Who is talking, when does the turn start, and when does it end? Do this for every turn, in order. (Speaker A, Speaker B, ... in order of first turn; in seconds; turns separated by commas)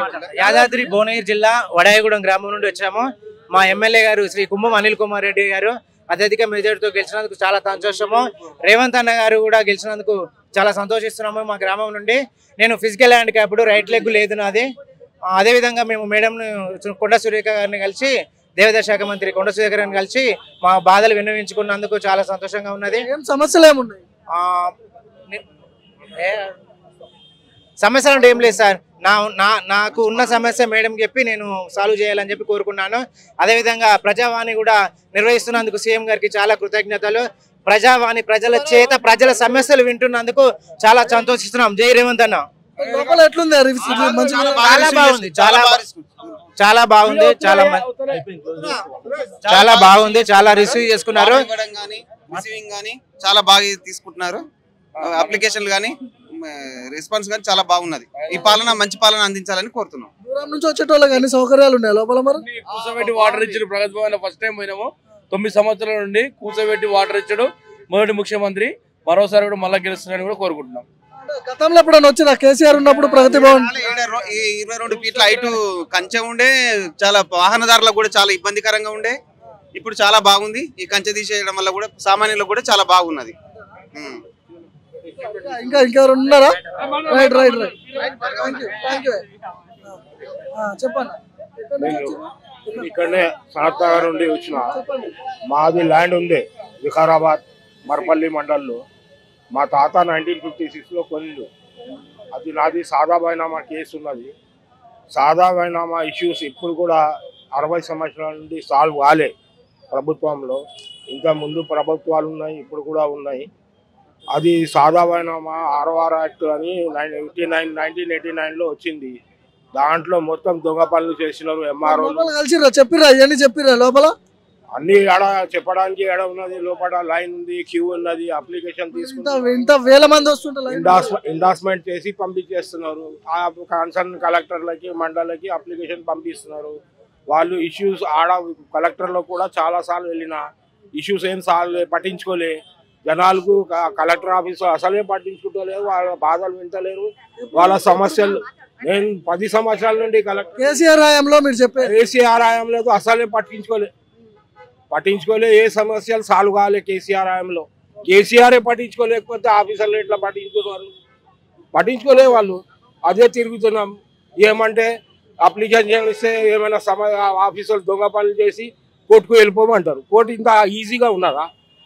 Speaker A: 0.3-14.7, Speaker A: 15.4-23.1, Speaker B: 22.9-24.0, Speaker A: 24.4-24.6, Speaker A: 27.8-42.4, Speaker B: 42.8-44.7, Speaker C: 43.8-46.4, Speaker A: 44.6-45.8, Speaker A: 46.6-47.8, Speaker D: 47.1-48.7, Speaker C: 49.5-54.4, Speaker A: 49.5-51.4, Speaker C: 55.0-60.1, Speaker B: 60.2-62.5, Speaker D: 62.4-70.8, Speaker B: 71.2-73.7, Speaker C: 73.2-79.2, Speaker C: 79.8-83.3, Speaker C: 83.9-84.2, Speaker B: 85.3-89.2, Speaker B: 90.6-92.9, Speaker E: 91.8-92.2, Speaker E: 92.8-94.8, Speaker B: 94.7-95.1, Speaker E: 95.5-98.8, Speaker E: 99.5-101.5, Speaker E: 102.3-104.3, Speaker E: 105.1-107.0, Speaker E: 107.5-109.3, Speaker E: 109.9-113.5, Speaker E: 114.3-119.2, Speaker E: 119.8-122.3, Speaker B: 121.8-124.1, Speaker E: 124.8-129.4, Speaker B: 128.9-131.1, Speaker E: 130.7-150.6, Speaker B: 147.4-148.2, Speaker B: 150.6-151.9, Speaker E: 151.8-153.9, Speaker E: 154.9-160.9, Speaker E: 161.7-164.9, Speaker E: 165.4-171.5